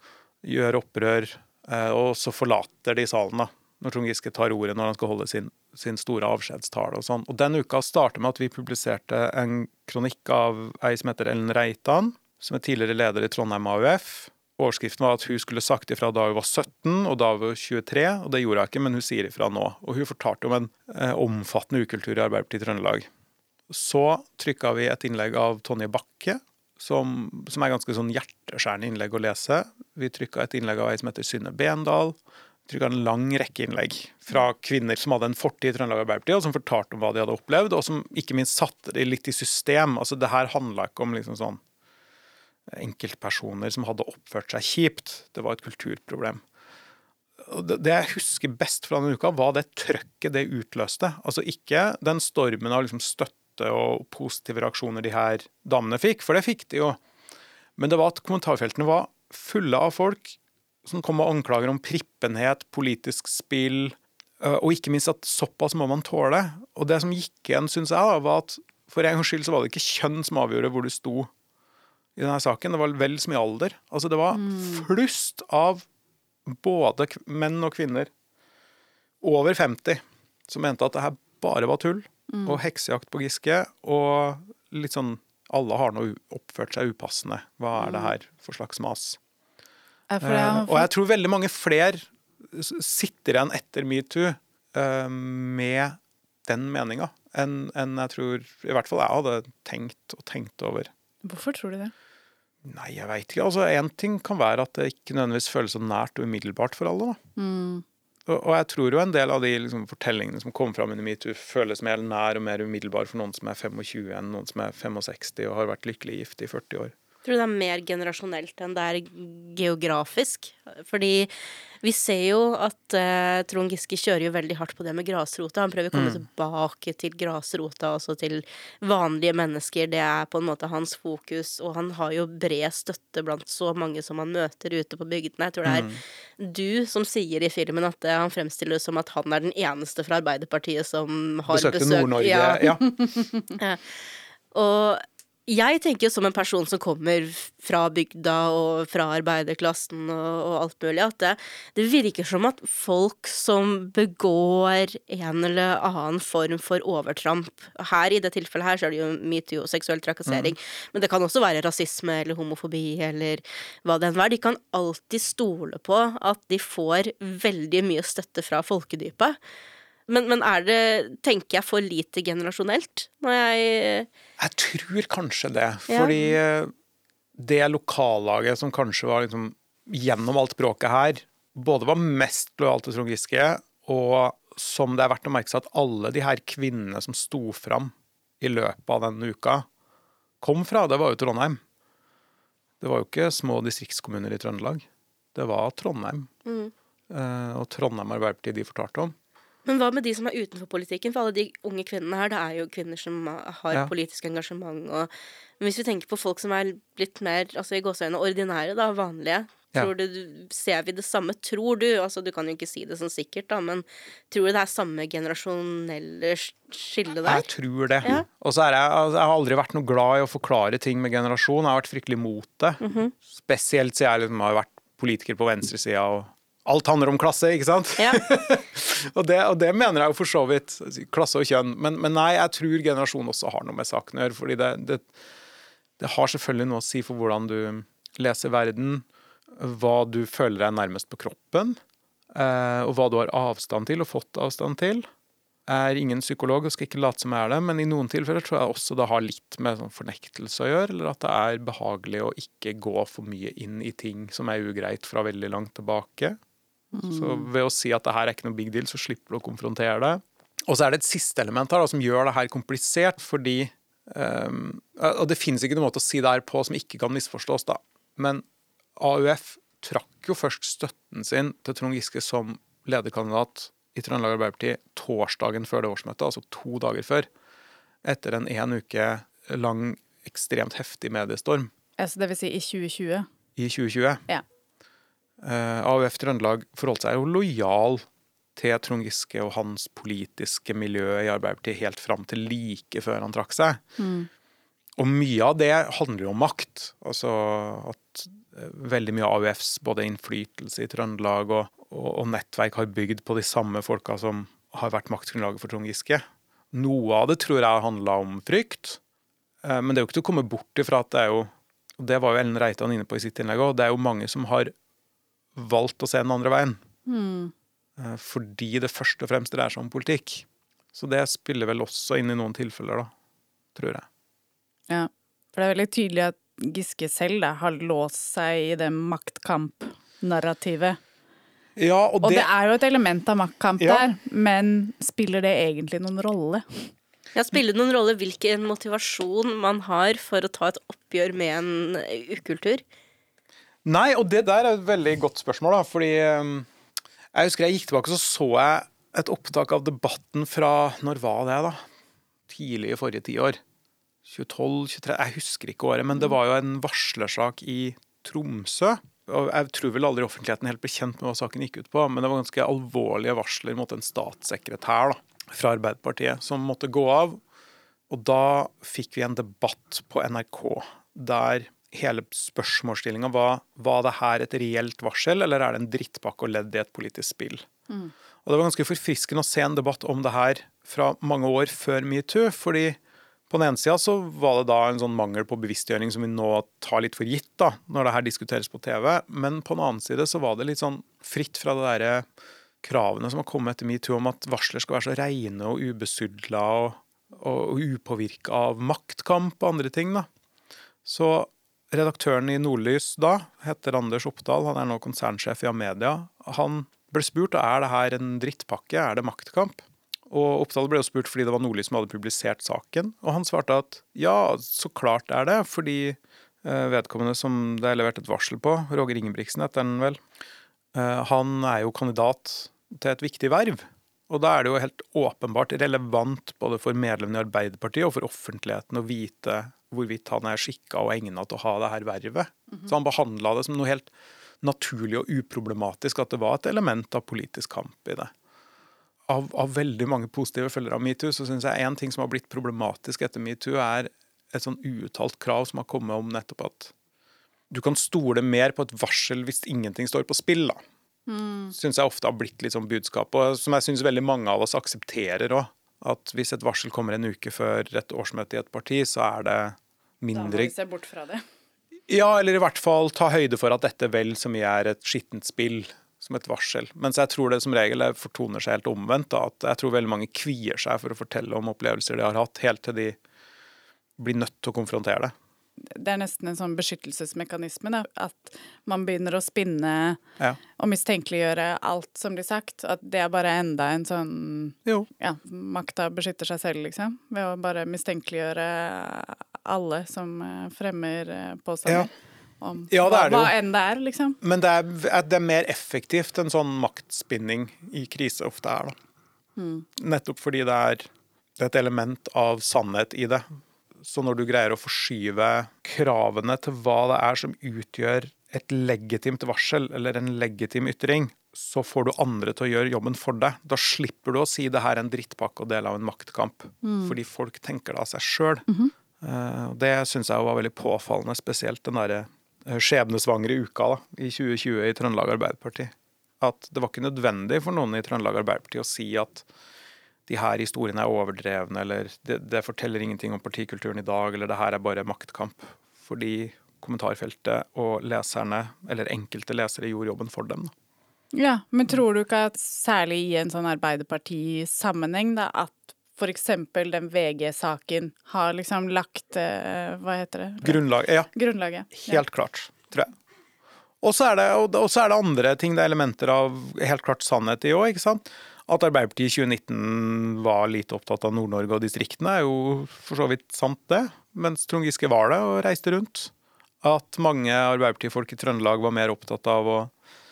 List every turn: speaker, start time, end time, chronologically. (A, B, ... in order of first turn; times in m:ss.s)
0:00.4-0:23.1 A
0:23.7-0:32.2 A
0:32.7-0:41.6 A
0:42.7-0:46.4 A
0:47.4-0:57.0 A
0:57.8-1:11.3 A
1:12.2-1:15.8 A
1:14.3-1:14.8 B
1:16.4-1:18.1 A
1:19.2-1:29.2 A
1:22.3-1:22.6 B
1:30.1-1:30.9 B
1:30.2-1:40.9 A
1:41.2-1:41.9 B
1:42.6-1:47.2 A
1:47.4-1:47.8 B
1:48.3-1:56.9 A
1:57.2-2:22.8 C
2:05.9-2:06.2 A
2:15.6-2:16.0 A
2:21.5-2:23.0 A
2:23.6-2:49.4 C
2:40.3-2:40.5 A
2:50.1-2:54.1 C
2:54.4-2:56.7 A
2:55.9-2:56.4 C
2:57.4-3:09.6 A
3:10.4-3:11.6 A
3:12.8-3:16.3 A
3:16.4-3:16.7 C
3:17.1-3:19.2 A
3:19.6-3:37.4 C
3:37.2-3:55.1 A
3:42.8-3:43.1 C
3:56.0-4:01.8 A
4:02.3-4:05.0 A
4:05.7-4:16.4 A
4:16.9-4:17.4 B
4:17.1-4:28.4 A
4:29.0-4:37.3 A
4:38.0-4:41.7 A
4:42.0-4:43.2 B
4:43.6-4:44.2 A
4:45.4-4:53.8 A
4:54.0-4:54.3 B
4:55.0-5:09.0 A
5:09.6-5:14.7 A
5:15.5-5:16.8 A
5:17.0-5:17.5 B
5:18.0-5:23.1 A
5:23.7-5:24.1 A
5:24.9-5:31.0 B
5:31.8-5:32.5 A
5:32.2-5:36.9 B
5:33.8-5:34.0 A
5:37.3-5:42.8 C
5:43.8-5:46.7 A
5:47.3-5:51.8 A
5:52.5-5:53.6 A
5:54.2-6:07.4 A
6:08.1-6:17.6 A
6:18.4-6:23.0 A
6:23.5-6:32.2 A
6:32.8-6:40.3 A
6:41.0-7:00.2 A
7:00.9-7:14.1 A
7:14.6-7:18.3 A
7:19.3-7:26.9 A
7:27.7-7:30.8 A
7:31.3-7:31.7 B
7:31.7-7:40.7 A
7:40.3-7:41.4 B
7:42.1-7:53.2 A
7:54.2-7:55.3 A
7:55.9-8:00.2 B
8:00.8-8:12.1 B
8:12.6-8:14.4 B
8:12.9-8:13.5 A
8:14.4-8:18.9 A
8:19.6-8:19.8 B
8:20.0-8:23.4 A
8:24.0-8:38.6 A
8:36.8-8:37.1 B
8:39.2-8:49.4 A
8:50.3-9:00.7 A
9:01.3-9:10.8 B
9:10.6-9:11.3 A
9:11.3-9:12.2 B
9:11.9-9:13.1 A
9:14.0-9:29.9 A